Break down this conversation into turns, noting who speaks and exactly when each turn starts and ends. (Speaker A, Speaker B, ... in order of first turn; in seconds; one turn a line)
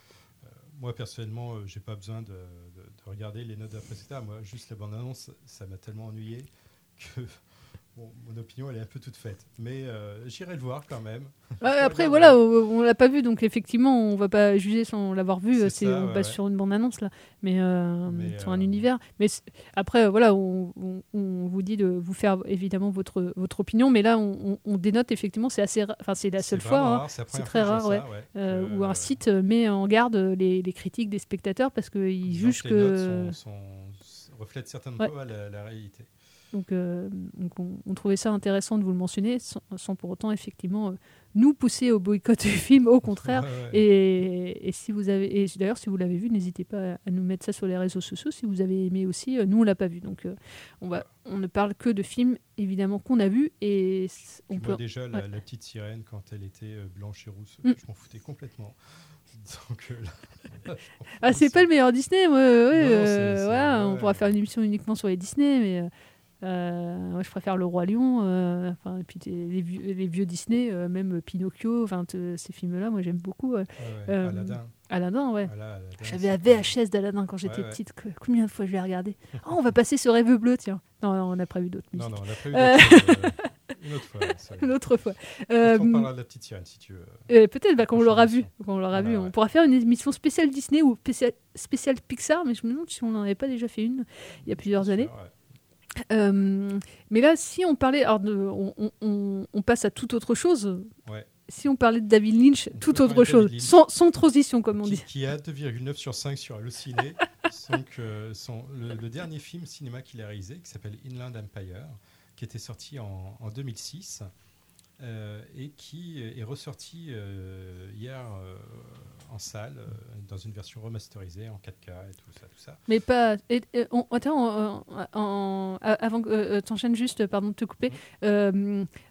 Speaker A: 0.4-7.4
Speaker A: 7.9-12.4
Speaker B: 11.6-33.4
Speaker A: 15.5-16.4
Speaker A: 18.1-18.9
Speaker A: 26.4-29.2
Speaker A: 32.2-36.1
Speaker B: 36.5-55.2
Speaker A: 43.1-43.8
Speaker A: 54.5-58.8
Speaker A: 59.3-61.7
Speaker B: 61.2-65.9
Speaker A: 62.7-64.3
Speaker B: 66.4-75.5
Speaker A: 73.8-74.7
Speaker A: 75.4-76.7
Speaker B: 76.0-83.3
Speaker A: 77.4-77.8
Speaker A: 81.9-84.8
Speaker B: 84.6-86.1
Speaker A: 85.6-87.3
Speaker B: 87.3-95.1
Speaker A: 87.8-89.3
Speaker A: 94.5-95.3
Speaker B: 96.1-100.9
Speaker A: 101.0-101.3
Speaker B: 101.5-105.0
Speaker A: 102.7-103.8
Speaker A: 104.8-114.3
Speaker A: 115.0-122.8
Speaker B: 122.9-128.9